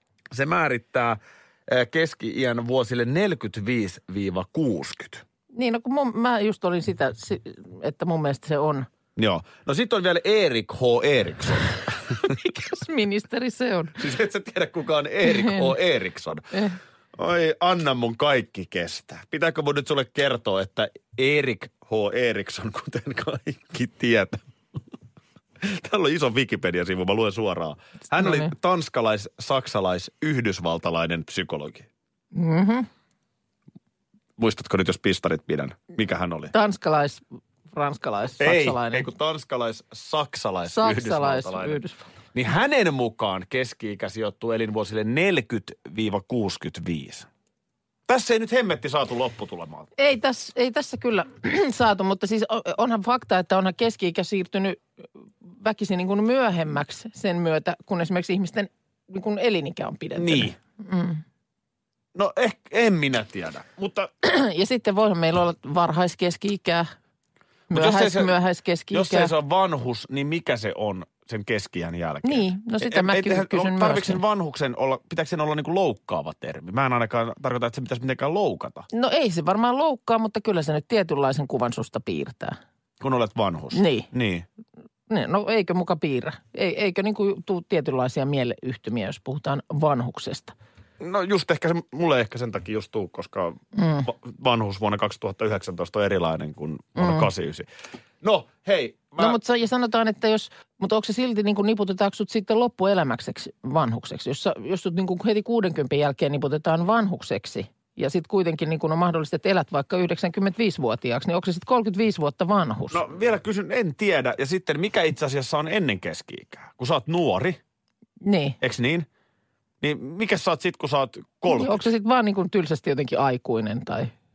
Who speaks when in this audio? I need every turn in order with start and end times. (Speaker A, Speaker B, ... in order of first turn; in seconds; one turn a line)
Speaker A: 0.3-5.2
Speaker B: 5.5-8.9
Speaker A: 9.2-12.2
Speaker B: 12.2-14.0
Speaker A: 14.0-16.4
Speaker B: 15.2-15.7
Speaker B: 16.5-16.8
Speaker A: 17.2-24.5
Speaker A: 25.6-31.9
Speaker B: 28.2-28.5
Speaker B: 32.3-32.9
Speaker A: 34.4-36.5
Speaker B: 36.5-39.1
Speaker A: 38.4-41.8
Speaker B: 40.7-42.1
Speaker A: 42.3-47.3
Speaker A: 48.1-49.9
Speaker B: 50.0-54.8
Speaker B: 55.4-61.2
Speaker A: 60.1-60.6
Speaker A: 62.1-64.1
Speaker B: 64.2-66.9
Speaker B: 67.7-69.3
Speaker A: 67.7-68.4
Speaker A: 68.9-78.9
Speaker B: 72.2-74.2
Speaker B: 78.9-82.6
Speaker A: 83.0-84.5
Speaker B: 83.7-84.1
Speaker B: 85.1-90.5
Speaker A: 91.0-97.7
Speaker B: 93.8-94.1
Speaker B: 97.0-97.3
Speaker A: 98.2-99.4
Speaker B: 99.2-113.0
Speaker A: 112.9-117.6
Speaker B: 118.2-118.6
Speaker A: 118.6-119.1
Speaker A: 119.8-121.9
Speaker B: 121.5-124.1